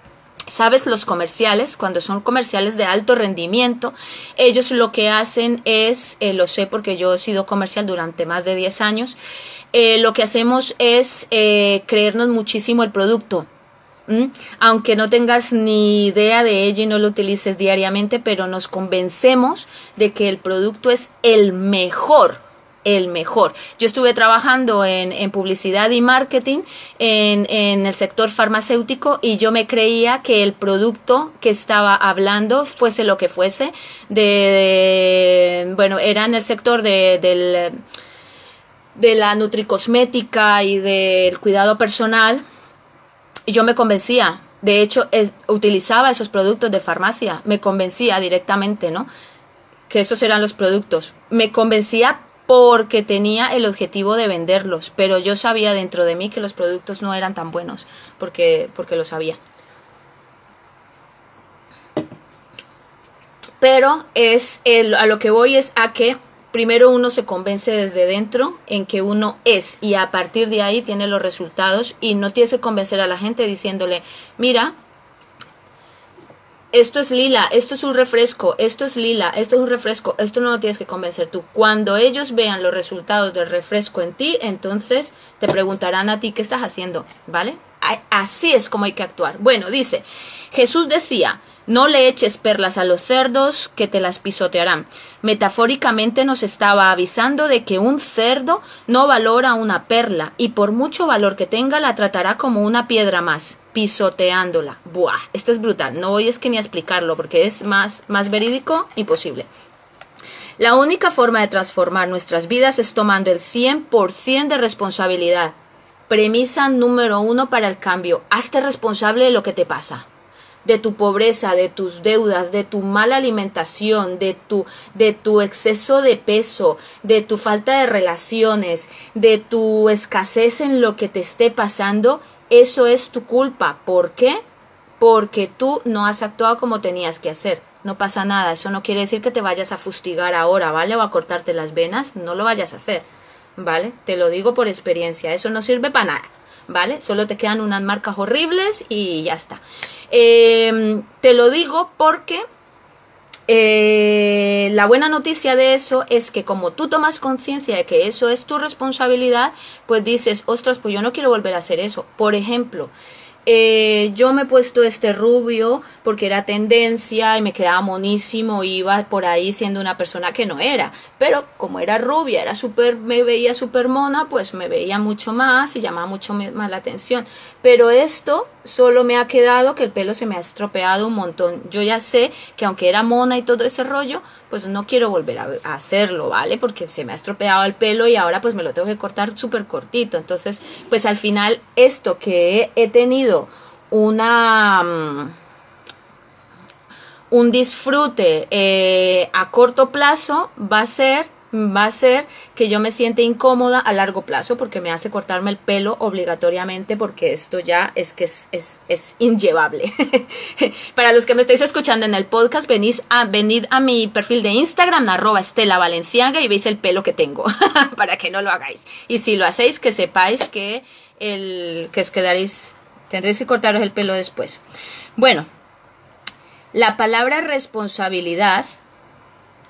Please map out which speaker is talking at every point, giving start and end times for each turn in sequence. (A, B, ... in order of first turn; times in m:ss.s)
0:00.5-0:09.2 A
0:09.7-0:13.5 A
0:14.1-0:37.8 A
0:39.0-0:42.4 A
0:43.5-0:49.1 A
0:49.9-0:59.4 A
1:03.6-1:14.7 A
1:16.7-1:49.5 A
1:50.6-1:55.6 A
1:56.1-2:00.1 A
2:00.6-2:14.4 A
2:15.0-2:23.1 A
2:23.6-2:32.4 A
2:33.5-2:42.9 A
2:43.5-3:15.3 A
3:17.3-3:44.6 A
3:45.2-3:45.5 A
3:46.7-3:48.7 A